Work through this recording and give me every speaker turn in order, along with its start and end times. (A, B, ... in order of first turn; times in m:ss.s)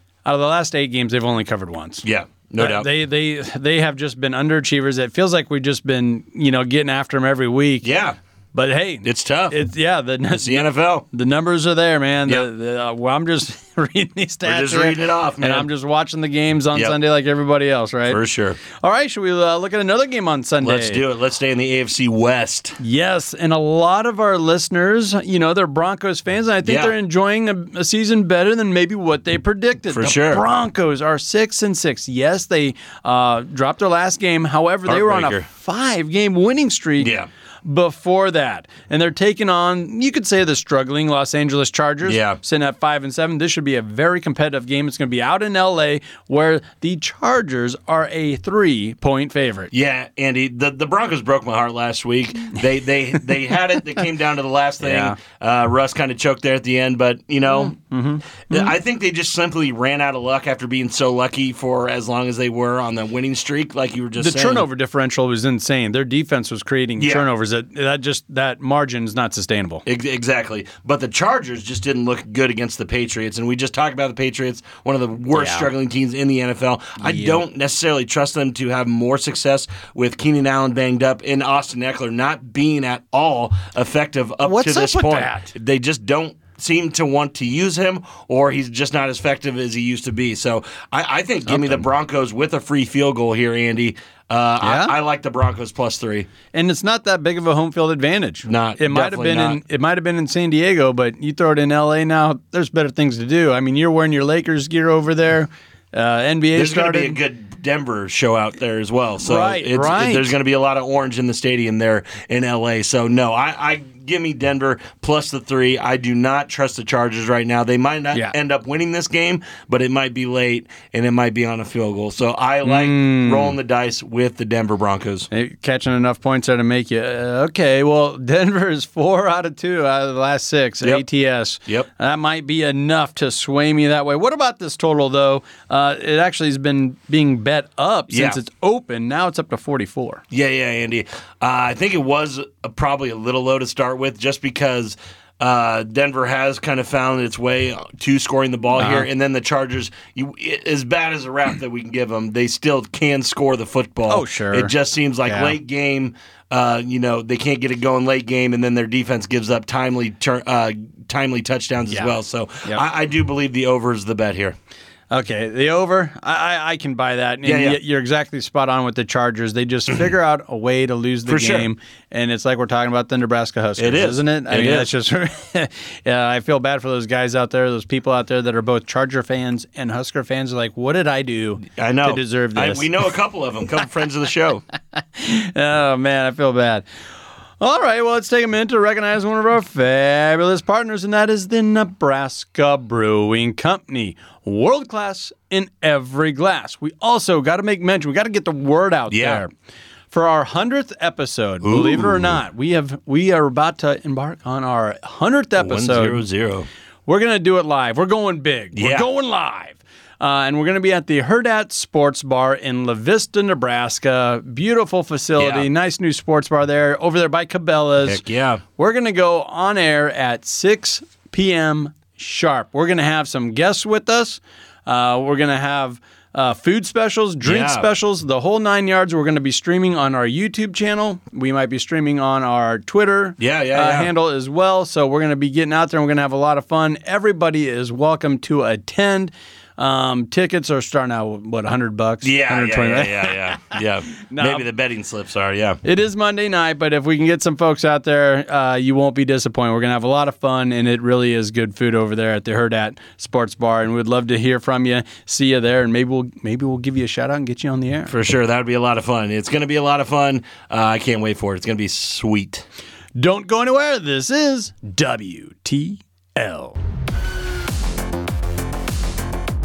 0:00.2-0:07.9 A
0:02.0-0:02.9 B
0:07.8-0:08.2 B
0:08.5-0:18.2 A
0:09.0-0:09.6 B
0:10.3-0:11.0 B
0:14.4-0:15.7 B
0:18.1-0:18.6 B
0:18.8-0:21.0 A
0:20.6-0:22.8 B
0:22.8-0:49.7 A
0:26.6-0:26.9 B
0:29.9-0:30.4 B
0:34.9-0:35.4 B
0:37.0-0:37.3 B
0:42.0-0:42.4 B
0:49.7-0:57.8 B
0:54.8-0:55.2 A
0:57.5-0:58.7 A
0:58.4-1:04.6 B
1:04.2-1:09.8 A
1:07.0-1:07.2 B
1:09.8-1:36.3 B
1:15.3-1:15.7 A
1:17.0-1:17.4 A
1:24.4-1:25.5 A
1:31.5-1:31.8 A
1:34.6-1:34.9 A
1:36.5-1:47.2 A
1:38.4-1:39.6 B
1:46.5-2:05.3 B
1:49.2-1:50.3 A
2:02.6-2:03.6 A
2:05.3-2:20.2 A
2:18.1-2:18.4 B
2:20.3-2:44.6 B
2:28.8-2:29.1 A
2:34.1-2:34.7 A
2:35.2-2:35.5 A
2:45.1-3:02.9 A
2:47.4-2:47.8 B
2:51.3-2:51.7 B
2:53.8-2:54.9 B
3:01.7-3:04.6 B
3:04.9-3:06.8 A
3:07.6-3:19.5 A
3:19.1-3:19.4 B
3:20.1-3:26.2 A
3:21.6-3:22.4 B
3:25.6-3:26.7 B
3:27.0-3:38.2 A
3:28.7-3:29.0 B
3:35.4-3:35.7 B
3:38.0-3:38.6 B
3:38.8-4:04.6 A
3:47.4-3:47.9 B
3:53.4-3:54.1 B
4:02.2-4:05.8 B
4:05.8-4:18.1 A
4:18.1-4:22.6 B
4:23.2-4:26.8 A